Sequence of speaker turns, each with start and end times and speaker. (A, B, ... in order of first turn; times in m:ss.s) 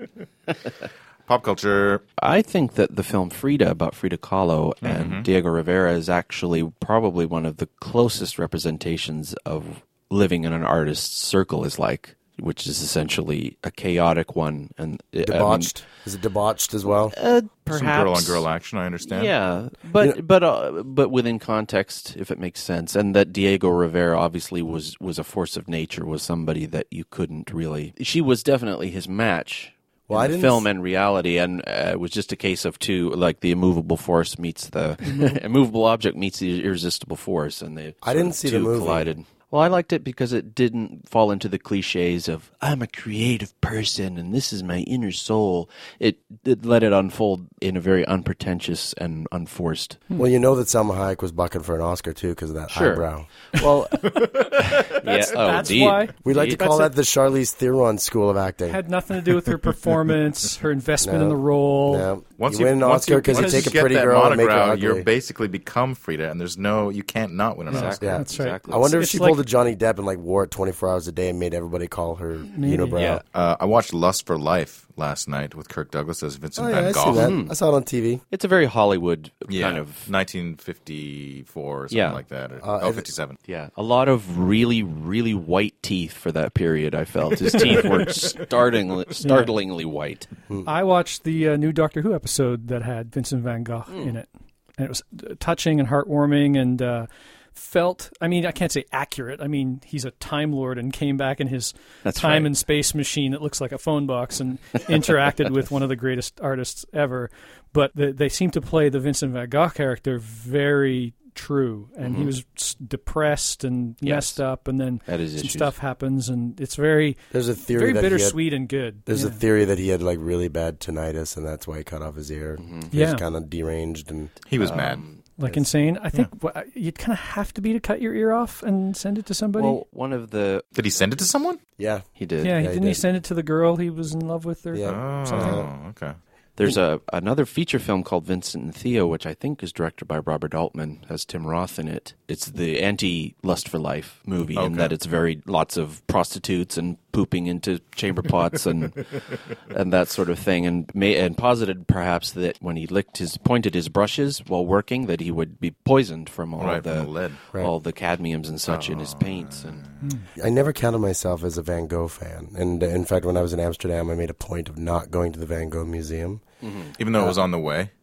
0:01.2-0:02.0 A
0:02.2-0:15.7 B
0:04.8-0:05.3 A
0:15.2-0:17.1 C
0:17.1-0:18.5 B
0:17.7-0:19.3 A
0:19.0-0:50.0 B
0:30.1-0:30.7 C
0:38.0-0:39.1 C
0:50.2-0:53.3 C
0:52.7-0:56.9 B
0:55.0-0:56.7 D
0:56.2-0:58.8 C
0:58.7-1:02.1 D
1:01.0-1:05.1 C
1:02.4-1:08.2 A
1:03.3-1:03.8 D
1:07.7-1:08.9 B
1:07.7-1:09.4 D
1:08.0-1:13.2 C
1:12.5-1:13.0 D
1:12.9-1:13.2 B
1:13.3-1:17.3 A
1:16.6-1:18.2 C
1:17.1-1:17.5 B
1:18.3-1:20.1 B
1:19.5-1:23.4 A
1:21.9-1:22.2 B
1:22.6-1:23.1 C
1:23.4-1:30.3 B
1:29.2-1:29.5 D
1:30.6-1:59.4 D
1:33.9-1:34.2 B
1:42.0-1:42.5 B
1:52.0-1:52.3 B
1:54.0-1:54.4 B
1:55.1-1:55.7 B
1:57.3-1:58.4 C
1:59.1-2:04.3 C
2:02.6-2:02.9 B
2:02.9-2:03.2 D
2:04.5-2:05.0 A
2:04.6-2:05.2 B
2:05.4-2:09.8 D
2:09.6-2:10.7 B
2:10.7-2:11.6 A
2:11.8-2:13.0 C
2:12.2-2:12.9 B
2:12.4-2:15.6 D
2:14.7-2:15.7 C
2:14.8-2:16.2 A
2:16.6-2:39.8 B
2:24.6-2:24.9 A
2:36.6-2:37.4 A
2:38.7-2:40.1 A
2:40.4-2:46.4 C
2:46.6-2:46.9 B
2:47.0-2:47.9 A